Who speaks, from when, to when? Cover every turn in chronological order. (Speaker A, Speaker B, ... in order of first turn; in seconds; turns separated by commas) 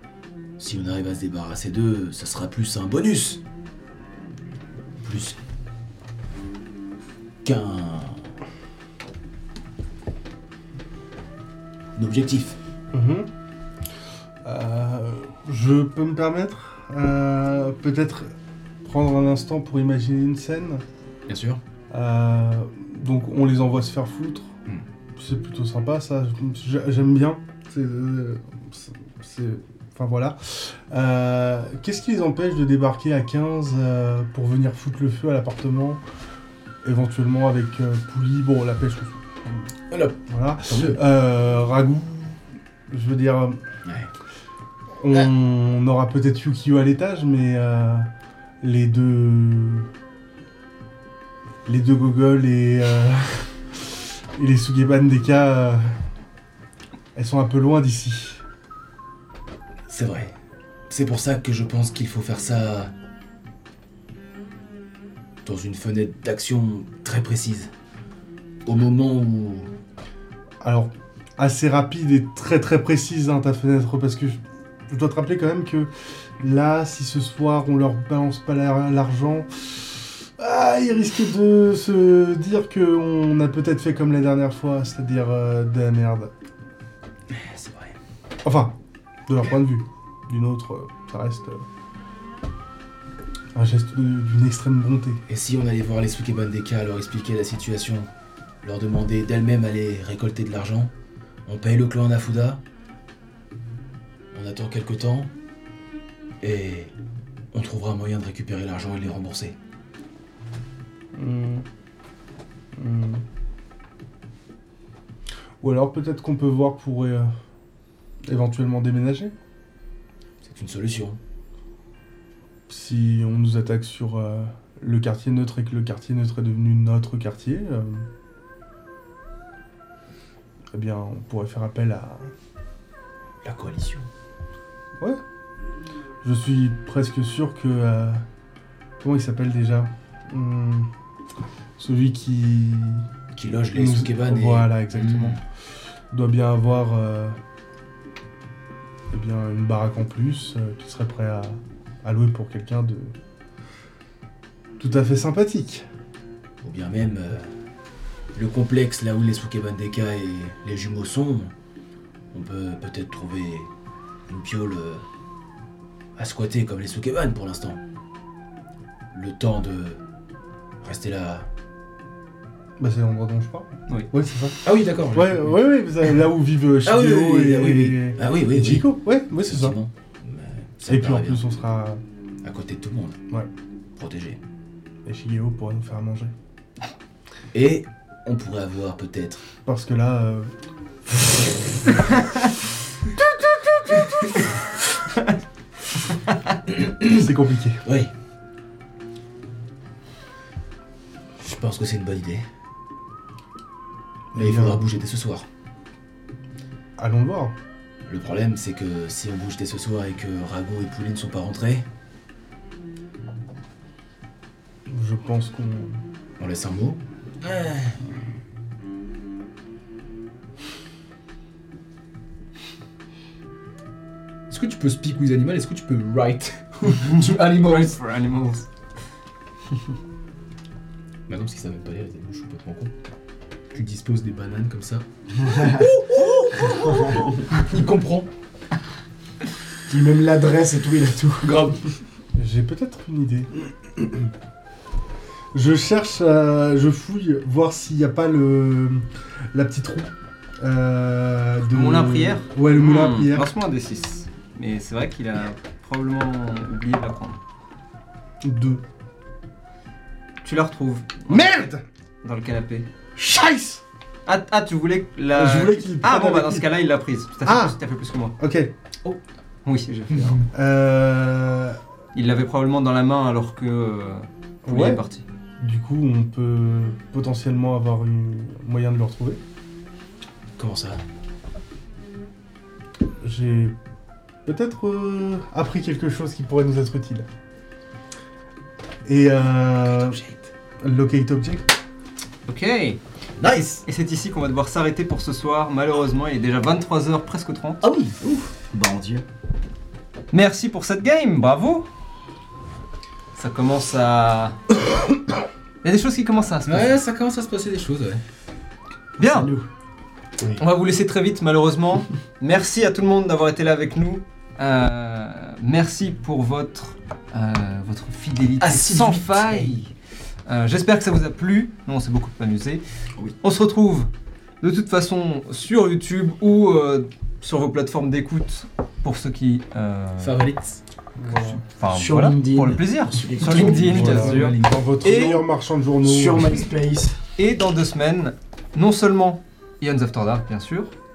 Speaker A: 0.6-3.4, Speaker A: 5.0-5.4, Speaker A: 7.4-8.2, Speaker A: 11.9-12.6, Speaker B: 12.9-13.3, Speaker B: 14.4-18.3, Speaker B: 18.8-20.8, Speaker A: 21.3-21.6, Speaker B: 21.9-24.5, Speaker B: 25.2-36.0, Speaker B: 36.8-39.6, Speaker A: 39.9-41.0, Speaker B: 40.3-43.6, Speaker B: 45.0-48.1, Speaker B: 48.6-49.9, Speaker B: 51.6-55.9, Speaker B: 57.1-58.4, Speaker A: 59.9-60.3, Speaker A: 60.9-62.9, Speaker A: 65.4-67.7, Speaker A: 68.7-69.7, Speaker B: 70.6-86.3, Speaker A: 87.3-88.0, Speaker B: 88.4-88.7, Speaker B: 89.3-91.6, Speaker B: 93.5-95.2, Speaker A: 95.3-98.1, Speaker A: 98.6-100.9, Speaker A: 101.5-102.6, Speaker A: 104.3-105.3, Speaker A: 106.4-106.9, Speaker A: 107.5-109.5, Speaker B: 111.1-111.6, Speaker B: 112.7-113.2, Speaker B: 115.6-117.3, Speaker B: 118.2-119.3, Speaker A: 120.4-121.2, Speaker B: 122.7-128.0, Speaker B: 130.7-132.3, Speaker A: 133.4-134.1, Speaker B: 136.2-138.2, Speaker B: 139.0-140.9, Speaker B: 141.8-143.1, Speaker A: 143.3-145.4, Speaker B: 143.7-145.4, Speaker B: 146.1-147.4, Speaker B: 149.1-153.1, Speaker B: 154.8-155.8, Speaker A: 156.6-157.5, Speaker A: 158.3-161.5, Speaker A: 162.3-163.7, Speaker A: 164.3-165.0, Speaker A: 166.2-167.8, Speaker A: 169.1-170.0, Speaker A: 170.8-171.5, Speaker B: 172.8-179.8, Speaker A: 174.6-175.8, Speaker A: 176.8-181.4, Speaker B: 180.9-182.0, Speaker A: 182.4-183.2, Speaker A: 184.0-184.4, Speaker B: 185.0-186.3, Speaker A: 187.5-189.4, Speaker B: 189.7-190.5, Speaker A: 196.7-197.3, Speaker B: 197.0-197.8, Speaker A: 197.8-198.1, Speaker A: 201.4-202.4, Speaker B: 204.3-204.8, Speaker A: 204.3-205.4, Speaker B: 207.0-207.5, Speaker A: 208.1-211.8, Speaker B: 214.9-216.0, Speaker A: 216.4-218.0, Speaker C: 224.5-228.0, Speaker D: 227.0-228.7, Speaker A: 231.3-232.9, Speaker C: 231.3-232.9, Speaker C: 233.7-235.0, Speaker E: 235.5-235.7, Speaker A: 235.8-238.2, Speaker C: 237.7-238.2, Speaker E: 239.9-241.7, Speaker A: 241.4-241.8, Speaker B: 242.4-244.3, Speaker B: 245.5-253.5, Speaker D: 251.6-257.4, Speaker B: 258.4-258.8, Speaker D: 260.4-262.9, Speaker B: 261.3-261.8, Speaker B: 263.1-263.8, Speaker D: 264.2-268.3, Speaker B: 265.3-266.7, Speaker B: 267.4-267.8, Speaker B: 268.4-268.7, Speaker D: 269.6-270.4, Speaker B: 270.5-271.8, Speaker D: 272.1-275.2, Speaker B: 274.6-275.0, Speaker B: 275.6-279.4, Speaker A: 280.6-281.0, Speaker B: 283.2-283.7, Speaker B: 284.4-287.2, Speaker B: 289.0-290.2, Speaker A: 290.0-290.4, Speaker B: 290.8-291.7, Speaker D: 292.5-293.0, Speaker A: 293.4-293.8, Speaker D: 293.9-297.8, Speaker A: 297.8-298.5, Speaker E: 298.7-299.2, Speaker D: 300.3-301.9, Speaker D: 303.3-304.6, Speaker D: 305.8-307.0, Speaker A: 306.7-307.4, Speaker C: 306.9-308.2, Speaker D: 309.2-309.5, Speaker E: 309.2-309.7, Speaker D: 310.6-319.9, Speaker A: 318.6-319.7, Speaker D: 320.4-322.8, Speaker D: 323.4-324.1, Speaker D: 324.6-330.4, Speaker C: 330.2-330.8, Speaker B: 331.2-331.6, Speaker D: 331.6-335.4, Speaker E: 331.9-334.3, Speaker B: 333.6-336.6, Speaker C: 334.2-334.8, Speaker E: 336.0-337.2, Speaker D: 337.4-340.9